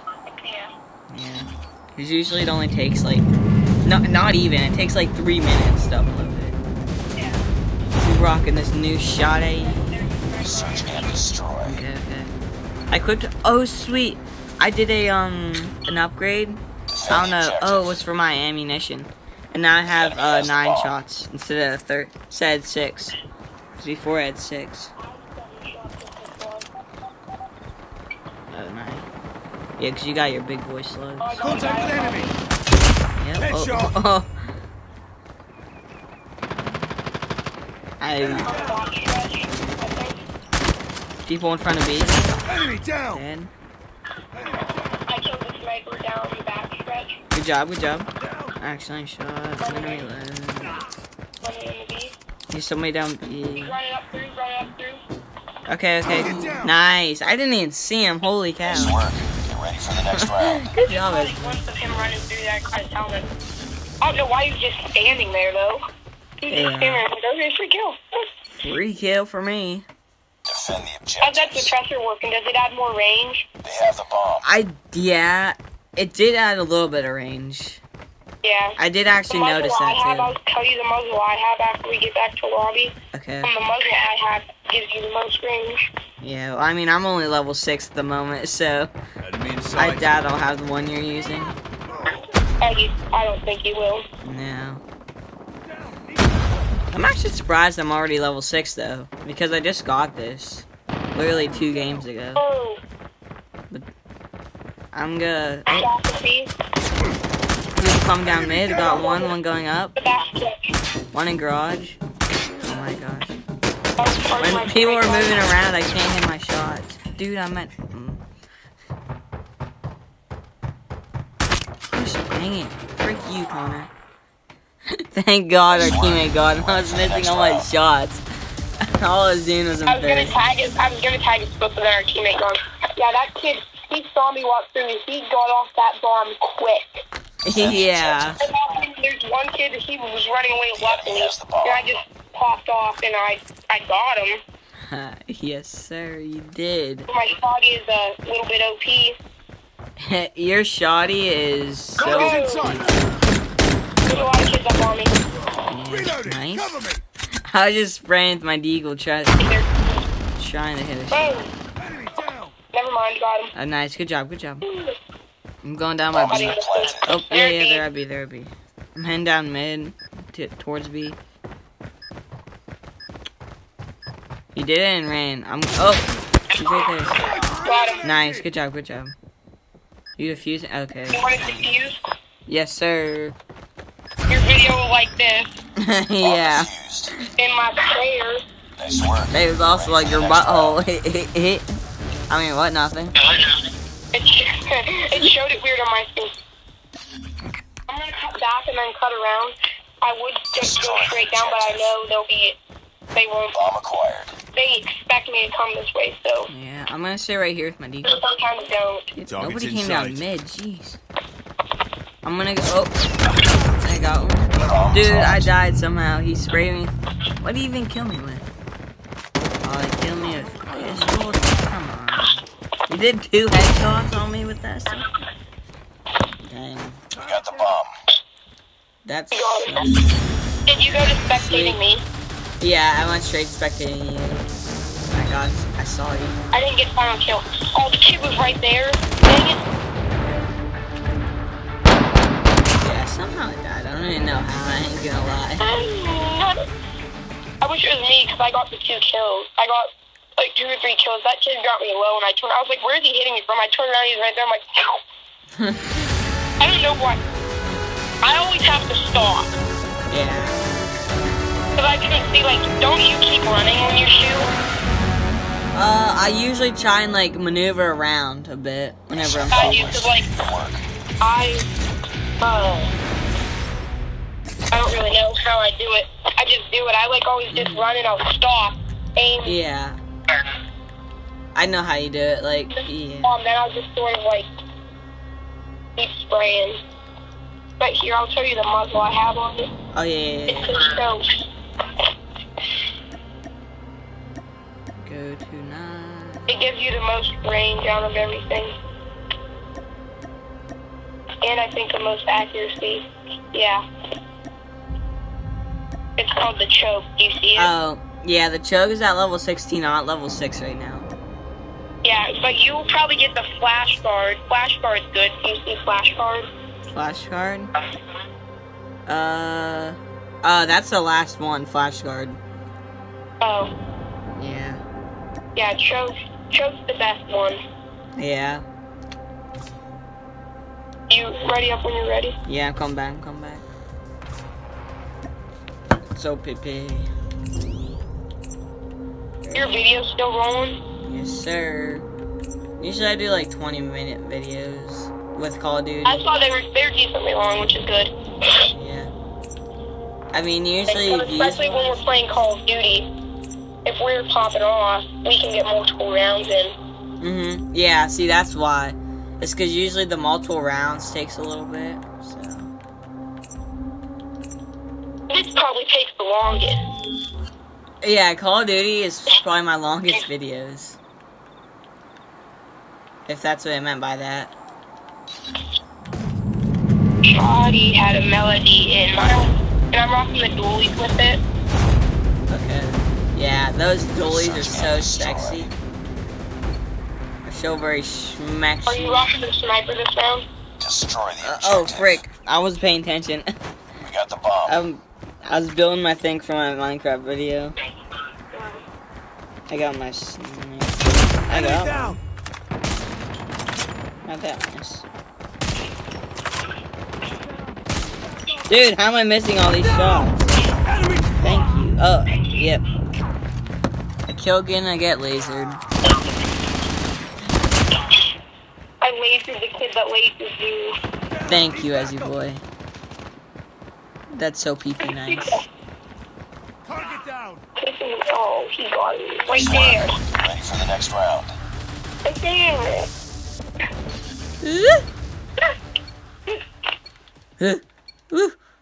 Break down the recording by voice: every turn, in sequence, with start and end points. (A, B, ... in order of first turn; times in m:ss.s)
0:00.3-0:00.7 A
0:01.1-0:03.3 B
0:03.8-0:06.6 B
0:07.2-0:07.4 A
0:08.0-0:10.1 B
0:09.6-0:11.2 A
0:10.4-0:11.8 C
0:11.6-0:23.2 B
0:16.9-0:18.0 C
0:19.9-0:20.9 C
0:23.8-0:24.9 B
0:25.0-0:26.7 A
0:28.5-0:29.1 B
0:29.8-0:31.4 B
0:31.2-0:32.4 A
0:31.4-0:32.3 D
0:33.2-0:34.4 B
0:33.4-0:33.9 D
0:36.6-0:36.9 B
0:38.0-0:38.6 B
0:38.4-0:40.2 A
0:41.2-0:42.4 B
0:42.4-0:43.2 D
0:43.1-0:43.5 B
0:44.9-0:47.2 A
0:47.3-0:50.8 B
0:49.6-0:50.1 A
0:51.4-0:52.2 A
0:52.5-0:53.8 B
0:53.6-0:55.0 A
0:55.7-0:59.0 B
0:56.1-0:56.7 D
0:58.6-1:00.6 C
1:00.1-1:01.6 B
1:00.7-1:03.3 A
1:04.0-1:05.8 A
1:06.4-1:08.0 A
1:06.5-1:07.0 B
1:08.6-1:09.9 B
1:10.5-1:11.7 C
1:11.2-1:13.5 A
1:13.6-1:14.4 C
1:14.4-1:17.8 B
1:18.4-1:18.8 A
1:18.8-1:20.3 B
1:19.3-1:25.8 A
1:23.1-1:23.5 B
1:26.2-1:28.9 B
1:29.2-1:30.1 D
1:29.8-1:31.6 B
1:32.6-1:34.1 A
1:34.2-1:34.8 B
1:36.9-1:42.4 B
1:42.4-1:42.8 A
1:44.9-1:45.8 B
1:45.7-1:46.5 A
1:47.8-1:49.9 B
1:48.3-1:48.6 D
1:48.8-1:49.3 A
1:50.0-1:50.6 A
1:51.1-1:52.0 B
1:52.6-1:53.4 B
1:54.0-1:55.5 A
1:54.4-1:58.2 B
2:01.9-2:03.9 B
2:05.1-2:08.2 B
2:05.7-2:07.7 C
2:09.0-2:10.3 B
2:09.9-2:17.0 A
2:17.4-2:18.4 B
2:17.5-2:18.4 C
2:18.4-2:24.4 A
2:20.8-2:21.8 C
2:24.9-2:27.1 B
2:27.1-2:29.2 A
2:30.0-2:33.0 B
2:32.0-2:33.0 D
2:32.0-2:32.8 A
2:34.1-2:35.2 A
2:35.7-2:36.8 B
2:35.9-2:37.0 D
2:37.5-2:39.4 B
2:39.4-2:40.0 A
2:40.4-2:41.3 B
2:41.1-2:41.5 A
2:41.8-2:42.5 D
2:42.7-2:43.5 A
2:43.6-2:44.7 B
2:44.6-2:45.0 A
2:45.6-2:51.2 B
2:46.1-2:47.2 C
2:46.2-2:47.8 A
2:54.6-2:57.3 B
2:57.3-2:58.2 D
2:57.6-2:58.1 A
2:58.0-2:59.2 B
3:00.2-3:01.6 B
3:01.1-3:02.0 A
3:02.5-3:03.4 B
3:04.3-3:05.5 A
3:05.8-3:07.3 B
3:06.2-3:07.1 C
3:07.4-3:08.4 A
3:08.8-3:10.8 C
3:09.3-3:11.7 B
3:12.3-3:13.2 B
3:14.1-3:16.3 A
3:17.9-3:22.6 A
3:20.6-3:21.9 C
3:23.1-3:23.6 A
3:23.6-3:24.3 C
3:24.5-3:26.5 A
3:26.5-3:28.2 B
3:28.0-3:29.1 A
3:29.1-3:31.0 B
3:29.3-3:30.2 D
3:32.2-3:38.5 B
3:34.6-3:35.5 C
3:39.6-3:45.1 B
3:46.4-3:47.0 B
3:47.2-3:47.7 D
3:47.2-3:48.0 C
3:49.0-3:50.0 B
3:49.3-3:49.9 A
3:50.7-3:52.0 A
3:51.3-3:51.8 B
3:52.6-3:54.5 B
3:55.1-3:56.4 B
3:56.5-3:59.7 A
4:02.8-4:05.6 B
4:05.6-4:06.6 A
4:07.6-4:15.0 A
4:15.6-4:16.1 B
4:16.6-4:17.2 A
4:18.2-4:19.5 A
4:20.1-4:20.6 B
4:21.8-4:24.5 A
4:25.7-4:29.8 B
4:29.1-4:30.8 C
4:29.5-4:30.3 A
4:31.2-4:31.7 A
4:32.4-4:32.9 A
4:34.7-4:39.6 A
4:37.5-4:37.9 B
4:39.4-4:40.0 B
4:41.6-4:43.3 B
4:42.7-4:44.5 A
4:46.0-4:46.8 A
4:47.8-4:49.7 A
4:49.9-4:50.9 B
4:50.5-4:51.2 A
4:55.0-4:56.5 B
4:56.5-4:58.7 A
5:01.4-5:03.8 A
5:06.2-5:07.7 A
5:07.6-5:11.1 B
5:12.0-5:16.5 A
5:16.8-5:17.7 B
5:19.1-5:22.4 B
5:23.4-5:23.7 A
5:24.4-5:24.8 B
5:25.6-5:27.6 A
5:28.2-5:28.6 B
5:31.1-5:32.4 A
5:32.5-5:33.6 B
5:36.1-5:37.1 B
5:39.4-5:39.8 B
5:39.5-5:40.8 A
5:41.0-5:42.1 B
5:42.8-5:46.3 B
5:46.0-5:48.1 A
5:48.7-5:49.1 B
5:50.3-5:52.1 B
5:50.9-5:53.1 A
5:53.8-5:56.8 A
5:57.2-6:02.7 B
6:05.3-6:06.8 A
6:08.0-6:11.0 B
6:13.3-6:14.5 B
6:17.2-6:21.4 A
6:22.5-6:25.7 B
6:24.2-6:25.7 C
6:27.4-6:29.3 B
6:28.9-6:30.5 A
6:30.8-6:32.2 C
6:31.4-6:33.5 B
6:34.0-6:34.8 C
6:34.7-6:37.8 B
6:38.5-6:38.8 A
6:39.7-6:42.2 B
6:41.5-6:42.2 D
6:44.3-6:45.1 B
6:48.7-6:50.4 B
6:50.9-6:51.2 D
6:51.4-6:52.8 B
6:54.3-6:55.8 B
6:59.0-7:01.0 A
7:01.3-7:02.3 D
7:01.4-7:02.6 B
7:04.3-7:05.7 B
7:05.0-7:05.6 A
7:06.8-7:07.6 D
7:07.8-7:10.1 A
7:09.5-7:11.5 C
7:12.2-7:13.1 A
7:14.6-7:15.0 B
7:17.6-7:18.6 B